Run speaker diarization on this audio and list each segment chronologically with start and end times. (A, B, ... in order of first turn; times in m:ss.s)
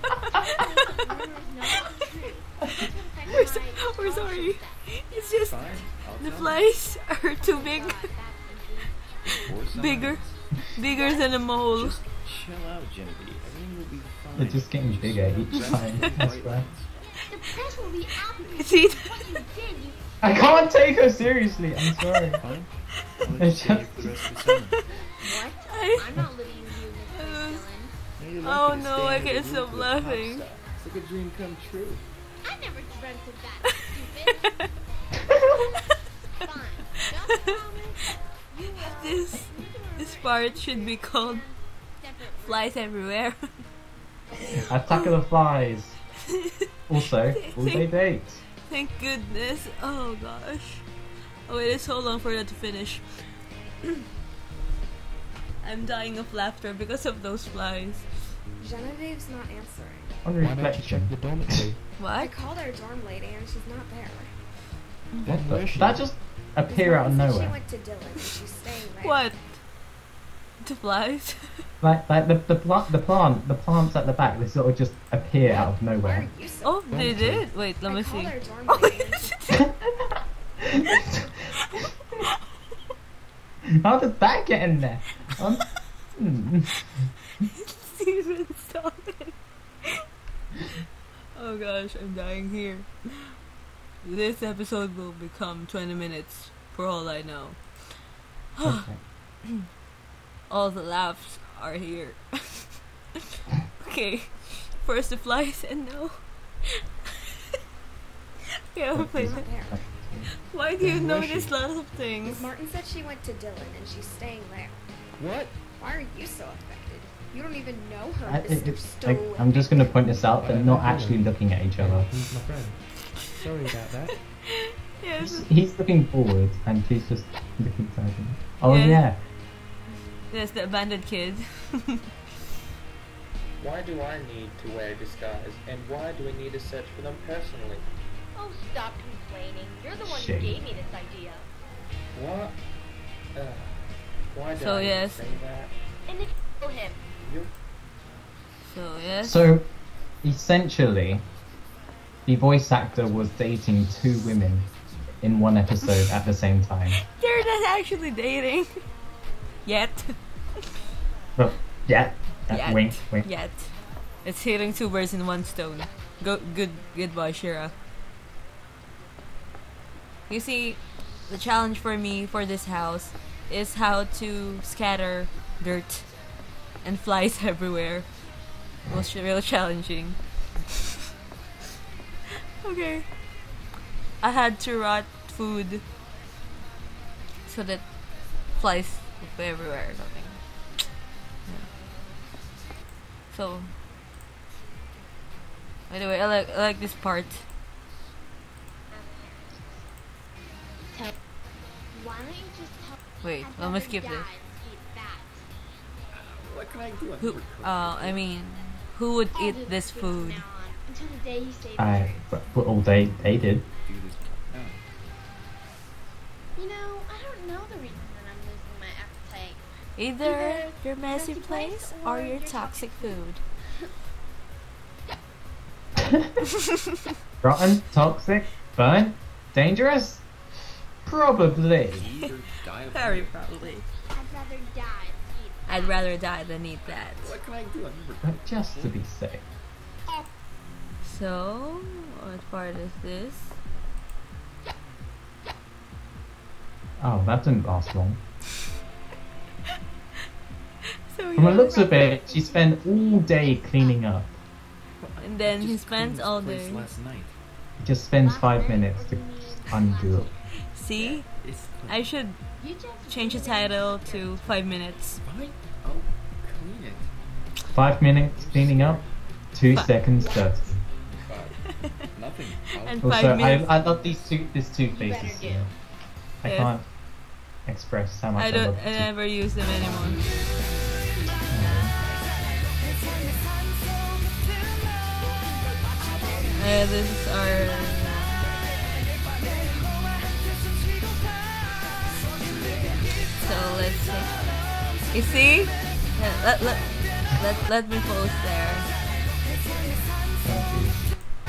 0:00.4-0:05.1 A
0:03.3-0:08.0 B
0:05.4-0:06.7 C
0:07.4-0:09.5 A
0:09.3-0:12.0 B
0:09.4-0:10.4 C
0:10.6-0:11.4 A
0:11.6-0:17.1 C
0:14.3-0:16.7 D
0:15.7-0:16.2 B
0:17.3-0:20.6 A
0:18.4-0:19.2 B
0:20.2-0:22.4 D
0:22.4-0:24.8 C
0:23.3-0:24.1 D
0:24.7-0:25.0 B
0:25.2-0:28.0 A
0:25.7-0:26.2 B
0:27.1-0:27.7 B
0:28.2-0:32.0 C
0:28.4-0:30.4 B
0:32.4-0:34.7 A
0:35.4-0:42.8 A
0:38.8-0:41.4 B
0:42.4-0:43.5 B
0:44.6-0:46.0 D
0:46.3-0:46.7 B
0:46.9-0:48.4 D
0:47.3-0:47.9 B
0:48.6-0:50.8 B
0:51.5-0:53.0 B
0:55.6-0:58.2 B
0:58.6-1:00.2 E
1:00.2-1:01.7 D
1:00.3-1:01.8 F
1:02.0-1:02.3 B
1:02.2-1:04.3 E
1:05.2-1:06.1 C
1:05.2-1:05.6 F
1:05.2-1:07.6 D
1:06.7-1:09.2 E
1:09.0-1:09.6 B
1:10.6-1:11.6 B
1:11.8-1:16.3 D
1:15.6-1:16.9 E
1:16.6-1:19.6 B
1:16.9-1:17.5 D
1:17.8-1:19.4 E
1:20.6-1:21.2 D
1:21.6-1:21.9 B
1:23.7-1:27.1 D
1:27.4-1:30.0 B
1:31.3-1:33.3 B
1:34.0-1:38.0 B
1:38.5-1:38.8 B
1:38.6-1:39.0 D
1:40.5-1:42.8 B
1:43.7-1:46.3 B
1:48.7-1:49.5 B
1:48.9-1:51.5 D
1:49.1-1:49.8 E
1:50.4-1:52.5 B
1:52.2-1:54.9 E
1:55.2-1:55.5 G
1:55.7-2:00.0 E
1:58.2-2:02.1 D
2:00.2-2:04.2 F
2:04.5-2:05.5 B
2:05.2-2:09.2 D
2:08.6-2:09.0 B
2:10.3-2:12.0 B
2:13.6-2:17.8 G
2:18.3-2:21.5 A
2:20.0-2:20.7 D
2:22.1-2:22.6 G
2:23.4-2:25.7 G
2:24.6-2:25.3 B
2:26.1-2:27.0 A
2:27.2-2:27.5 G
2:28.6-2:29.4 B
2:29.2-2:29.7 D
2:30.2-2:31.2 D
2:32.2-2:37.0 D
2:37.1-2:38.8 B
2:39.6-2:40.2 B
2:41.4-2:43.3 D
2:42.5-2:47.7 B
2:50.3-2:56.1 B
2:56.8-2:58.1 B
2:58.9-3:00.2 B
3:02.6-3:03.1 B
3:04.2-3:05.8 B
3:07.4-3:07.9 B
3:08.5-3:10.4 B
3:13.3-3:13.7 B
3:15.9-3:17.5 B
3:18.9-3:19.7 A
3:21.9-3:25.4 A
3:23.2-3:24.3 B
3:26.1-3:28.2 C
3:27.2-3:30.4 B
3:29.3-3:32.4 A
3:31.8-3:33.7 D
3:33.8-3:34.8 C
3:36.6-3:39.6 A
3:40.0-3:43.4 B
3:40.2-3:43.2 A
3:46.0-3:46.2 D
3:47.4-3:50.3 D
3:51.0-3:52.1 D
3:51.4-3:53.6 C
3:52.9-3:53.8 B
3:54.1-3:56.6 A
3:55.7-3:57.3 B
3:56.8-3:59.0 C
3:58.2-3:59.4 D
4:01.0-4:03.6 B
4:07.0-4:08.2 D
4:11.1-4:11.8 B
4:11.4-4:14.4 D
4:11.4-4:14.0 A
4:15.0-4:17.4 C
4:15.2-4:16.9 B
4:17.8-4:20.3 D
4:18.2-4:20.4 A
4:20.7-4:22.4 B
4:20.9-4:22.1 C
4:22.6-4:24.6 A
4:23.0-4:25.2 B
4:25.2-4:27.1 C
4:27.7-4:30.8 D
4:28.2-4:29.2 C
4:30.2-4:30.8 A
4:31.0-4:34.4 C
4:31.6-4:31.9 B
4:32.8-4:33.7 B
4:33.0-4:35.7 D
4:34.8-4:35.7 A
4:36.4-4:36.9 D
4:36.4-4:36.7 B
4:37.6-4:39.1 D
4:38.3-4:40.2 B
4:41.5-4:41.9 D
4:46.5-4:48.4 B
4:53.4-4:54.5 B
4:55.1-4:58.9 B
5:00.4-5:01.1 D